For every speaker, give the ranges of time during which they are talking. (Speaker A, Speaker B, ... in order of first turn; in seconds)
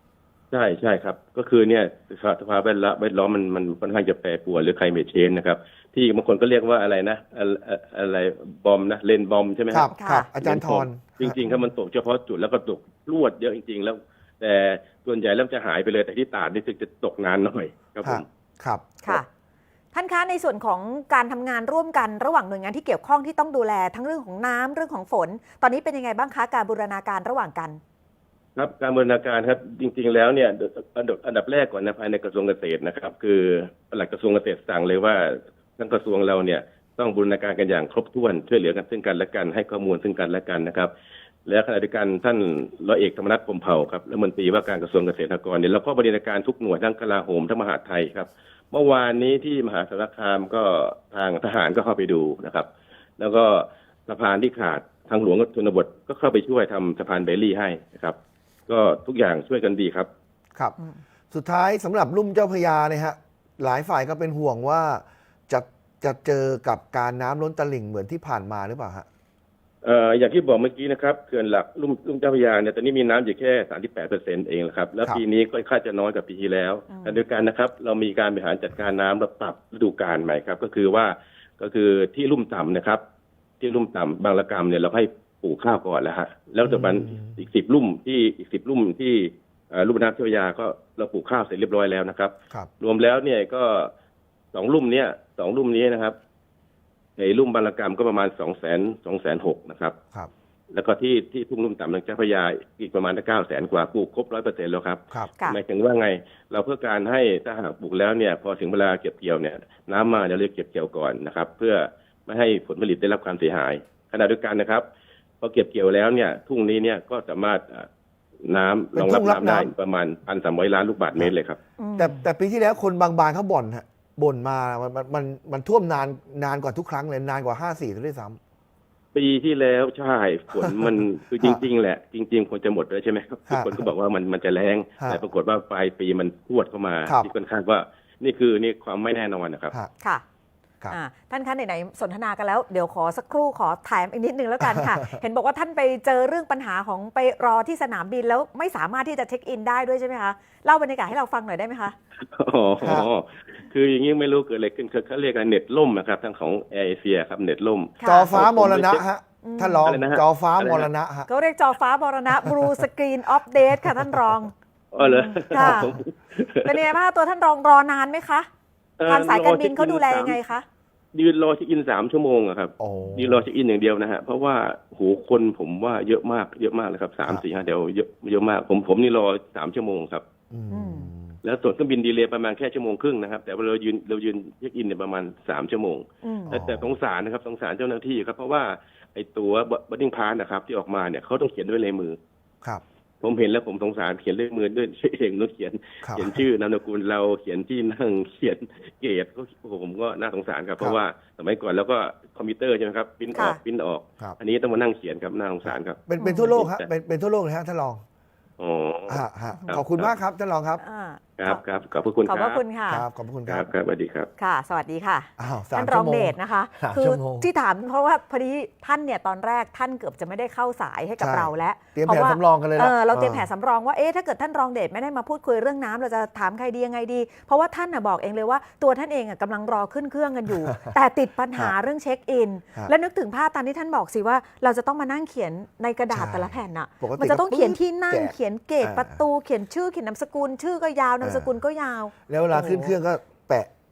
Speaker A: 0.5-18.2, 28.6-40.9, 41.5-52.7, 53.2-58.2, 58.7-60.1, 69.8-83.0, 83.6-93.9, 94.5-96.1, 97.2-100.0, 100.7-114.8, 115.4-117.9, 118.4-121.6, 129.1-139.7, 152.3-159.0, 159.8-160.9, 164.9-166.9, 169.0-170.4, 171.1-180.2, 181.4-192.2, 193.2-206.9, 208.6-210.1, 211.4-212.6, 213.5-214.3
Speaker B: 9.7-11.4, 18.0-18.9, 61.3-69.1, 86.6-87.4, 118.9-119.7, 122.0-128.4, 133.5-133.8, 144.6-145.2, 152.8-153.1, 158.1-161.3, 163.7-164.3, 165.6-165.9, 172.8-173.4, 180.5-181.4, 186.5-186.9, 196.0-196.4, 205.6-208.0, 209.1-210.8, 212.9-213.7, 215.4-217.5, 221.2-223.5, 230.6-230.9, 236.1-239.2, 241.2-241.5, 242.3-243.7
Speaker C: 10.0-10.3, 19.9-27.8, 76.9-77.2, 121.8-122.2, 140.9-151.9, 158.0-158.4, 159.4-159.9, 161.3-165.9, 166.6-168.5, 169.1-170.6, 180.7-181.1, 186.2-186.6, 206.2-206.5, 210.8-211.6, 212.3-213.1, 214.4-242.9